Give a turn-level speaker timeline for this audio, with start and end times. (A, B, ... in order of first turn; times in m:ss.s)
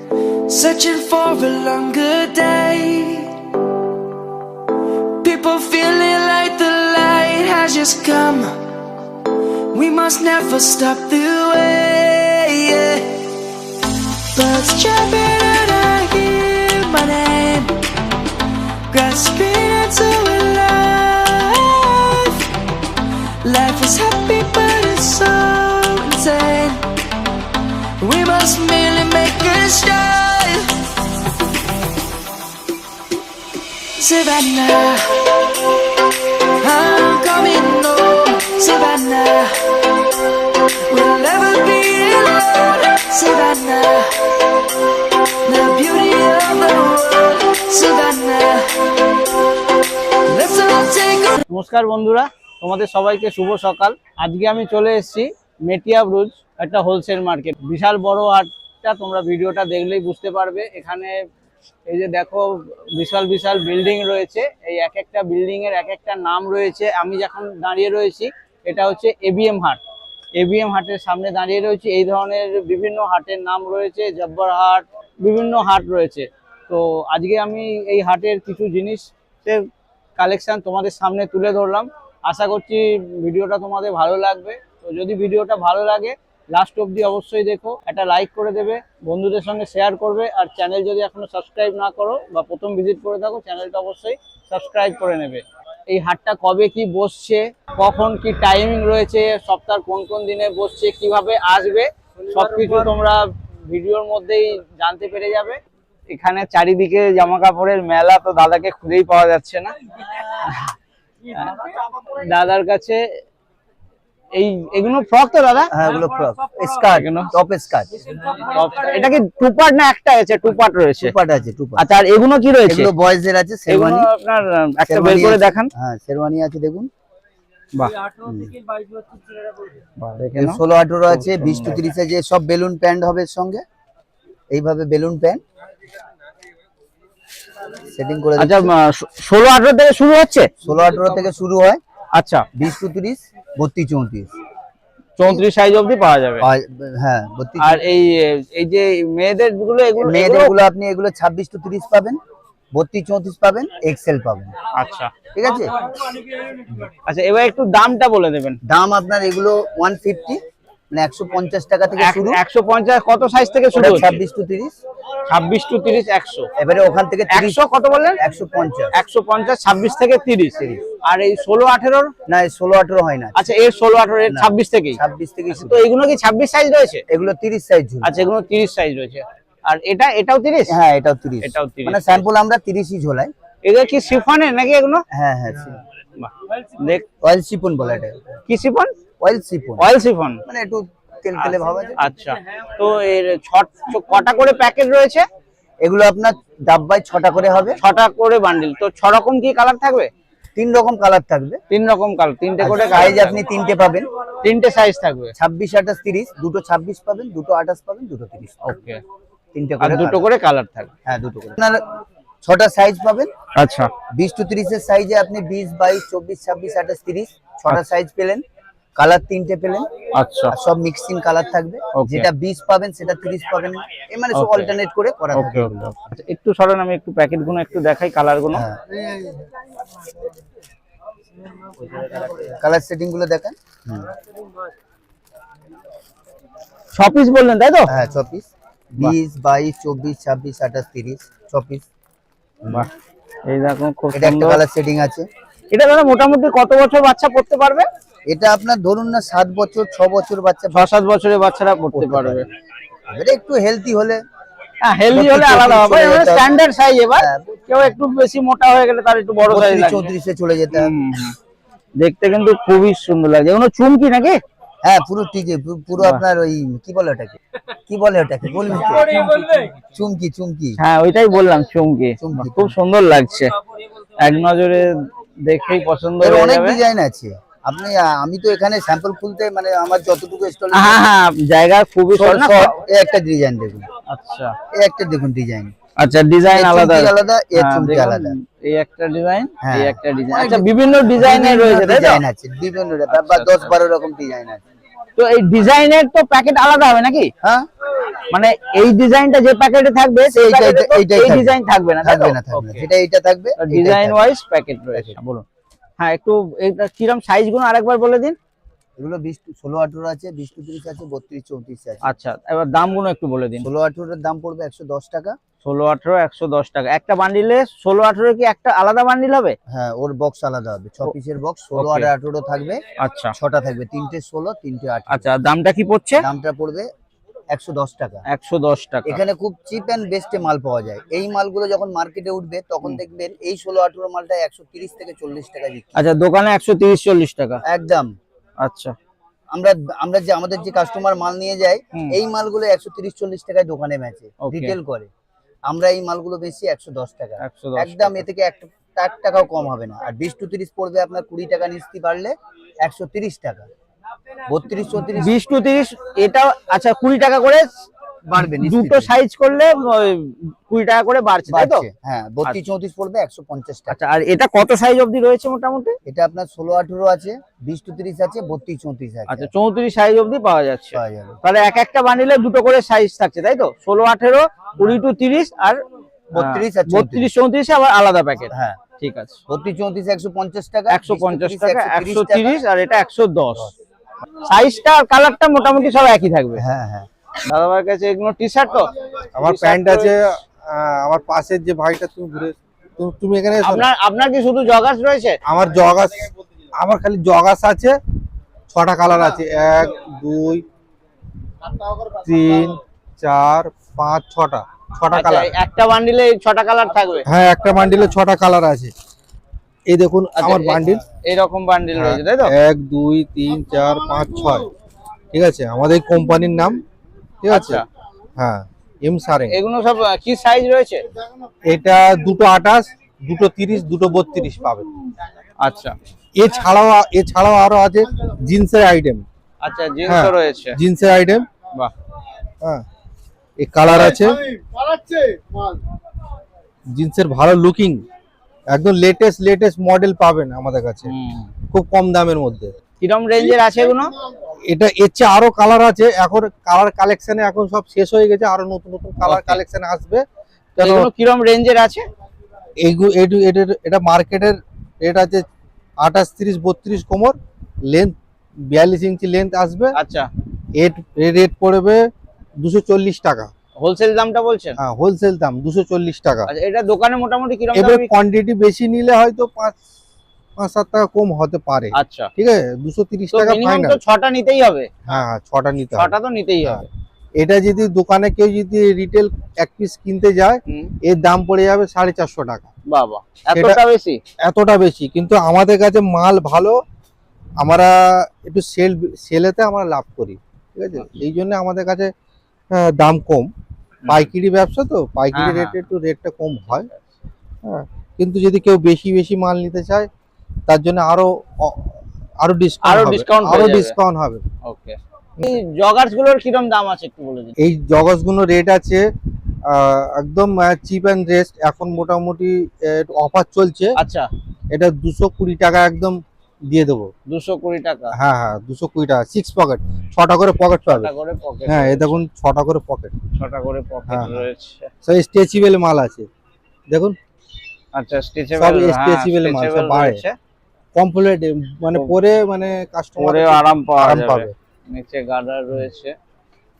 0:00.5-0:03.3 A
0:05.2-0:08.6 A
0:09.7-0:13.2 A
0:14.3-0:17.8 A
0:18.9-0:22.5 A
0:23.4-0:26.9 A
0:28.0-0:30.7 A
0:34.0-0:35.1 A
0:36.6-0:39.6 A
0:40.9-0:44.1 A
0:45.4-0:48.9 A
0:50.3-0:51.4 A
0:51.5-1:01.2 B
1:01.9-1:09.8 B
1:10.4-1:19.6 B
1:20.2-1:45.6 B
1:46.1-1:49.7 B
1:51.3-1:51.6 B
1:52.3-1:53.0 B
1:54.3-1:55.7 B
1:55.7-1:57.9 C
1:56.9-1:57.3 B
1:58.4-2:01.1 B
2:01.0-2:01.9 C
2:01.8-2:02.9 B
2:02.7-2:04.1 C
2:03.7-2:05.7 B
2:04.9-2:06.9 C
2:08.2-2:08.6 C
2:10.0-2:11.8 B
2:10.3-2:13.6 C
2:14.5-2:15.4 C
2:17.9-2:18.7 C
2:18.4-2:20.5 B
2:20.6-2:21.8 C
2:22.1-2:22.4 B
2:22.5-2:24.3 C
2:25.2-2:26.4 B
2:26.4-2:27.8 C
2:27.6-2:30.6 B
2:30.0-2:32.2 C
2:32.7-2:34.5 C
2:34.7-2:35.1 B
2:35.3-2:35.7 C
2:37.0-2:38.6 B
2:38.6-2:42.4 C
2:42.0-2:44.2 B
2:43.7-2:44.7 C
2:45.3-2:46.5 B
2:46.6-2:47.6 C
2:47.3-2:48.2 B
2:48.2-2:48.9 C
2:48.9-2:52.1 B
2:52.3-2:53.5 C
2:53.4-2:55.0 B
2:54.3-2:55.8 C
2:55.5-2:57.0 B
2:57.1-2:58.2 C
2:58.0-3:00.7 B
3:00.7-3:03.3 C
3:01.4-3:02.2 B
3:03.6-3:05.0 B
3:05.1-3:05.8 C
3:06.2-3:07.0 B
3:07.2-3:08.2 C
3:08.5-3:08.9 B
3:09.2-3:09.8 C
3:09.8-3:10.4 B
3:10.4-3:12.0 C
3:11.4-3:15.2 B
3:15.8-3:17.8 C
3:17.8-3:20.1 B
3:20.6-3:21.6 C
3:21.7-3:23.4 B
3:22.6-3:24.1 C
3:24.4-3:25.3 B
3:25.3-3:28.6 C
3:28.6-3:29.0 B
3:29.5-3:30.2 C
3:29.8-3:30.9 B
3:31.0-3:31.8 C
3:32.4-3:33.3 C
3:33.6-3:33.9 B
3:34.1-3:38.4 C
3:39.0-3:39.9 C
3:40.2-3:40.5 B
3:40.5-3:45.9 C
3:41.9-3:42.3 B
3:44.3-3:44.7 B
3:45.3-3:48.6 B
3:48.5-3:48.8 C
3:52.4-3:54.1 C
3:56.9-3:57.9 B
3:57.9-4:01.9 C
4:03.5-4:04.6 B
4:04.1-4:05.3 C
4:05.7-4:07.9 B
4:08.3-4:10.9 C
4:10.7-4:12.5 B
4:11.9-4:12.5 C
4:13.1-4:14.2 C
4:14.8-4:20.1 B
4:15.1-4:16.5 C
4:17.2-4:17.8 C
4:19.4-4:21.0 C
4:20.7-4:21.4 B
4:22.0-4:24.4 B
4:24.8-4:30.8 C
4:30.8-4:33.5 B
4:32.2-4:32.8 C
4:34.2-4:36.8 B
4:36.2-4:41.0 C
4:40.7-4:42.8 B
4:42.1-4:43.9 C
4:44.1-4:44.6 B
4:44.7-4:45.7 C
4:46.0-4:52.2 B
4:46.4-4:48.3 C
4:49.6-4:54.6 C
4:53.1-4:53.7 B
4:55.2-4:57.3 B
4:57.4-4:57.7 C
4:58.3-5:02.8 B
5:00.3-5:04.3 C
5:03.6-5:05.4 B
5:06.0-5:08.4 B
5:09.0-5:12.0 C
5:12.0-5:13.7 B
5:13.6-5:15.4 C
5:15.6-5:19.6 B
5:19.7-5:22.8 C
5:21.8-5:22.1 B
5:23.0-5:23.3 B
5:23.4-5:25.3 C
5:25.1-5:26.2 B
5:26.2-5:26.9 C
5:27.5-5:28.2 C
5:28.3-5:29.2 B
5:29.1-5:35.9 C
5:36.0-5:37.6 B
5:37.6-5:38.1 C
5:38.6-5:38.9 B
5:39.5-5:45.1 C
5:44.4-5:44.8 B
5:45.7-5:53.7 C
5:47.4-5:48.2 B
5:54.5-5:55.4 C
5:55.2-5:57.7 B
5:58.3-5:59.1 C
5:58.6-6:01.8 B
6:01.5-6:04.0 C
6:03.9-6:06.0 B
6:06.1-6:09.5 C
6:09.3-6:15.8 B
6:10.9-6:11.4 C
6:16.3-6:17.3 C
6:16.4-6:19.4 B
6:18.5-6:18.8 C
6:19.5-6:22.6 C
6:20.9-6:23.7 B
6:24.5-6:26.6 B
6:26.6-6:27.1 C
6:27.5-6:28.9 B
6:29.4-6:33.9 D
6:29.4-6:30.2 B
6:33.6-6:35.4 B
6:35.5-6:38.0 D
6:38.7-6:40.6 D
6:42.2-6:45.5 D
6:45.1-6:47.2 B
6:47.3-6:48.9 D
6:49.9-6:51.0 D
6:50.4-6:52.5 B
6:52.0-6:54.7 D
6:55.3-6:56.8 D
6:57.4-6:57.8 D
6:57.5-6:57.9 B
6:58.4-6:59.6 D
6:59.5-7:01.0 B
7:01.6-7:04.9 D
7:05.6-7:05.9 B
7:06.4-7:09.2 D
7:09.6-7:10.8 B
7:10.1-7:11.5 D
7:13.6-7:14.4 D
7:13.9-7:14.1 B
7:16.9-7:18.0 D
7:18.7-7:21.1 D
7:21.1-7:21.5 B
7:21.7-7:22.7 D
7:23.0-7:24.1 B
7:24.7-7:30.2 D
7:29.2-7:29.6 B
7:30.8-7:32.0 B
7:30.8-7:31.1 D
7:32.8-7:35.5 D
7:36.0-7:37.4 D
7:37.9-7:39.9 D
7:39.9-7:40.3 B
7:40.8-7:43.5 D
7:43.8-7:44.8 B
7:44.8-7:46.5 D
7:46.5-7:48.1 B
7:47.7-7:49.8 D
7:50.6-7:54.0 D
7:51.9-7:52.3 B
7:53.3-7:55.0 B
7:55.0-7:56.8 D
7:56.0-7:56.9 B
7:57.4-8:02.7 D
8:00.7-8:00.9 B
8:02.9-8:04.2 B
8:03.5-8:03.8 D
8:04.4-8:06.8 D
8:07.6-8:12.1 D
8:12.7-8:13.5 D
8:14.0-8:14.3 B
8:14.1-8:16.9 D
8:15.3-8:15.8 B
8:16.7-8:17.0 B
8:17.6-8:20.1 D
8:20.7-8:24.4 D
8:22.8-8:24.0 B
8:24.6-8:27.6 B
8:27.6-8:29.1 D
8:29.7-8:33.9 D
8:34.0-8:34.3 B
8:34.7-8:37.1 D
8:37.3-8:38.1 B
8:38.2-8:41.1 D
8:40.9-8:42.2 B
8:41.7-8:43.2 D
8:43.3-8:44.9 B
8:44.1-8:44.4 D
8:45.0-8:46.3 D
8:46.9-8:47.2 D
8:48.0-8:50.4 B
8:48.6-8:50.2 D
8:51.0-8:54.5 D
8:53.2-8:56.1 B